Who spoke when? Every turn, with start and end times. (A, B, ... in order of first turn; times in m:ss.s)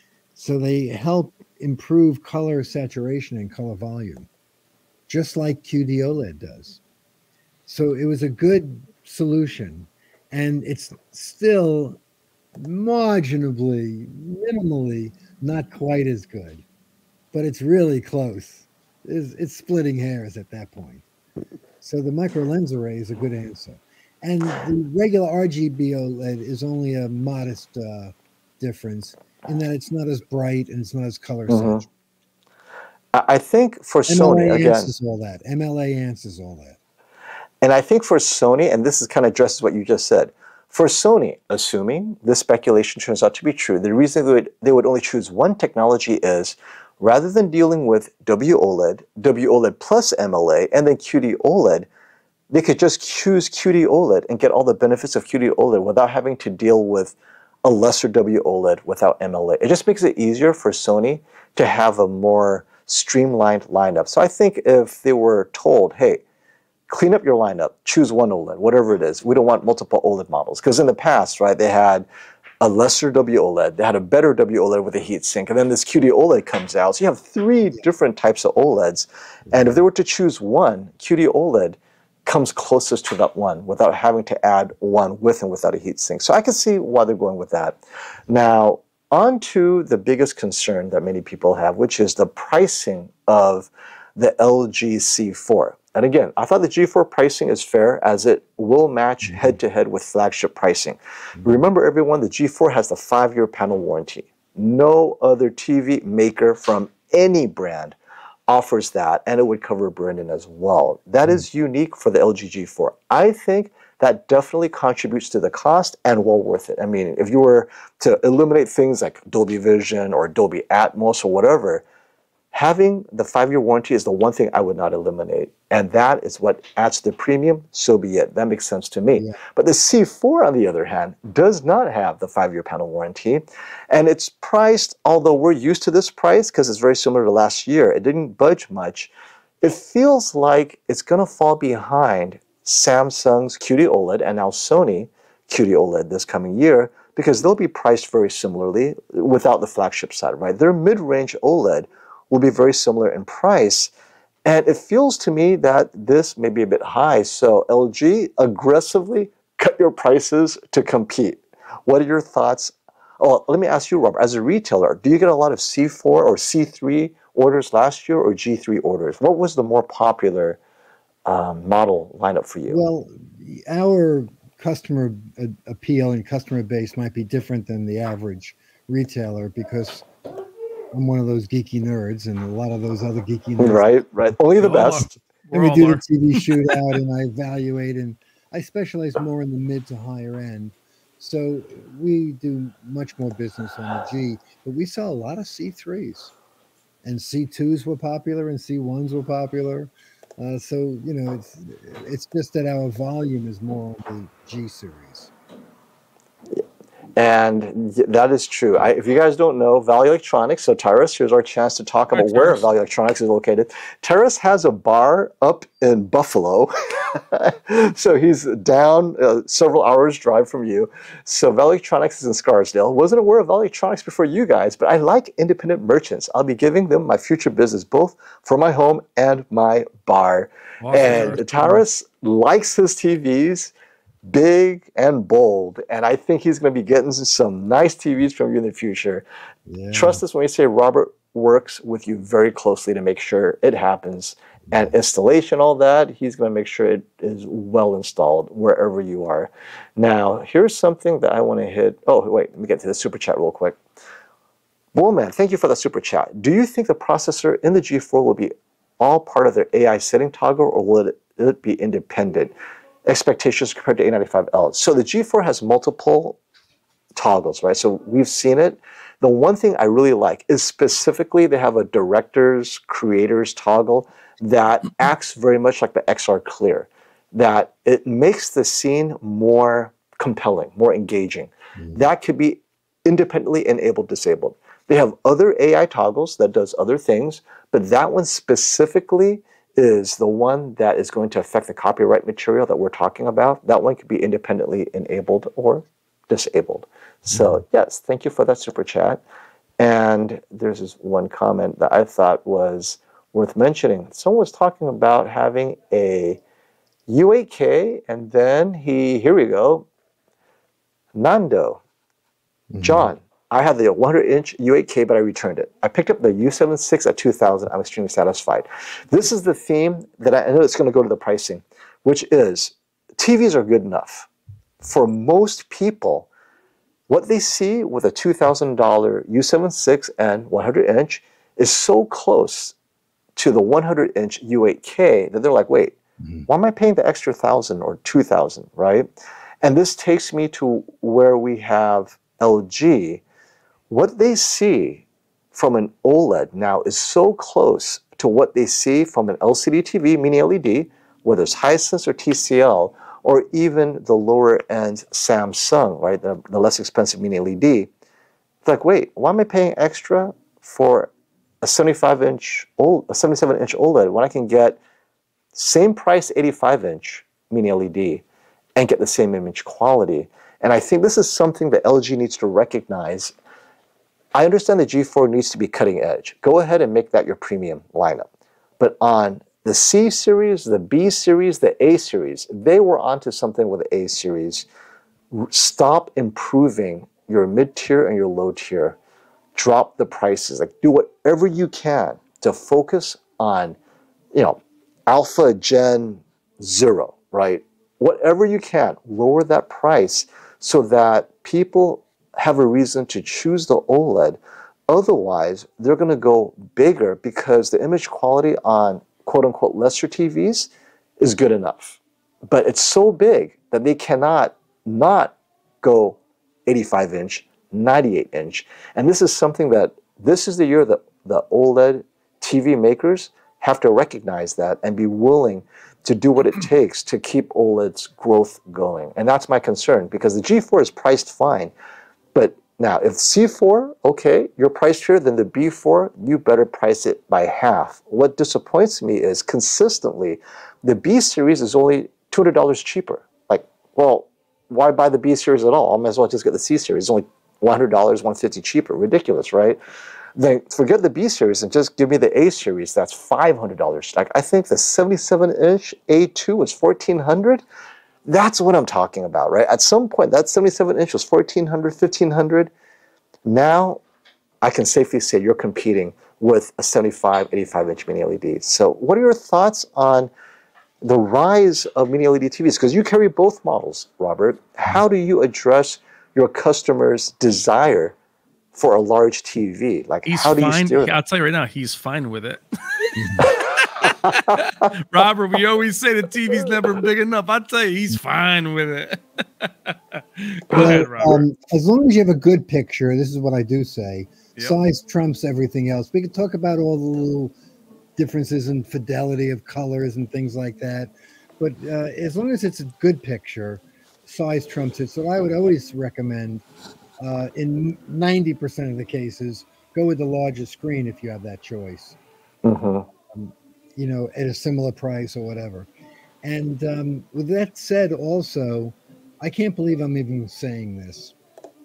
0:00.4-0:04.3 A
0:05.1-0:06.8 A
0:07.7-0:12.0 A
0:12.6-0:16.6 A
0:17.3-0:21.0 A
0:21.8-0:31.9 A
0:31.5-0:31.8 B
0:33.1-0:34.9 B
0:34.1-0:36.8 A
0:37.6-0:51.9 B
0:52.5-1:06.2 B
1:06.9-1:12.1 B
1:12.6-1:48.0 B
1:39.2-1:39.6 A
1:48.5-2:01.8 B
2:02.5-2:19.1 B
2:19.6-2:33.9 B
2:34.4-2:50.6 B
2:51.2-2:52.8 B
2:52.7-3:00.0 A
3:00.9-3:03.9 A
3:03.6-3:05.1 B
3:04.6-3:06.0 C
3:05.5-3:16.3 A
3:17.0-3:25.3 A
3:27.2-3:53.7 B
3:32.1-3:32.7 C
3:50.8-3:51.7 C
3:51.0-3:51.7 A
3:54.2-3:59.2 B
3:59.7-4:00.2 A
3:59.9-4:13.8 B
4:14.9-4:22.5 B
4:23.0-4:26.4 B
4:27.2-4:59.2 B
4:41.8-4:42.0 A
4:57.3-4:57.6 A
4:59.8-5:06.4 B
5:07.1-5:09.9 B
5:11.1-5:11.8 B
5:12.7-5:13.1 A
5:12.8-5:24.3 B
5:24.8-5:26.3 B
5:27.1-5:32.7 B
5:33.4-5:35.9 B
5:36.2-5:36.5 A
5:36.5-5:39.1 B
5:39.6-5:43.2 B
5:43.9-5:57.9 B
5:58.6-6:01.1 B
6:01.6-6:04.8 B
6:05.5-6:08.2 B
6:08.8-6:13.3 B
6:14.3-6:18.3 B
6:18.8-6:24.7 B
6:25.3-6:29.0 B
6:29.5-6:33.8 B
6:34.3-7:11.7 B
7:12.3-7:29.8 B
7:30.4-7:37.6 B
7:38.2-7:42.7 B
7:43.4-7:44.0 B
7:44.6-7:50.3 B
7:51.0-7:58.1 B
7:58.7-8:01.2 B
8:00.2-8:11.4 C
8:03.2-8:03.5 A
8:04.1-8:04.9 B
8:10.7-8:17.5 A
8:18.2-8:26.6 A
8:27.2-8:32.2 A
8:32.6-8:33.1 B
8:33.3-8:35.9 A
8:36.4-8:41.3 A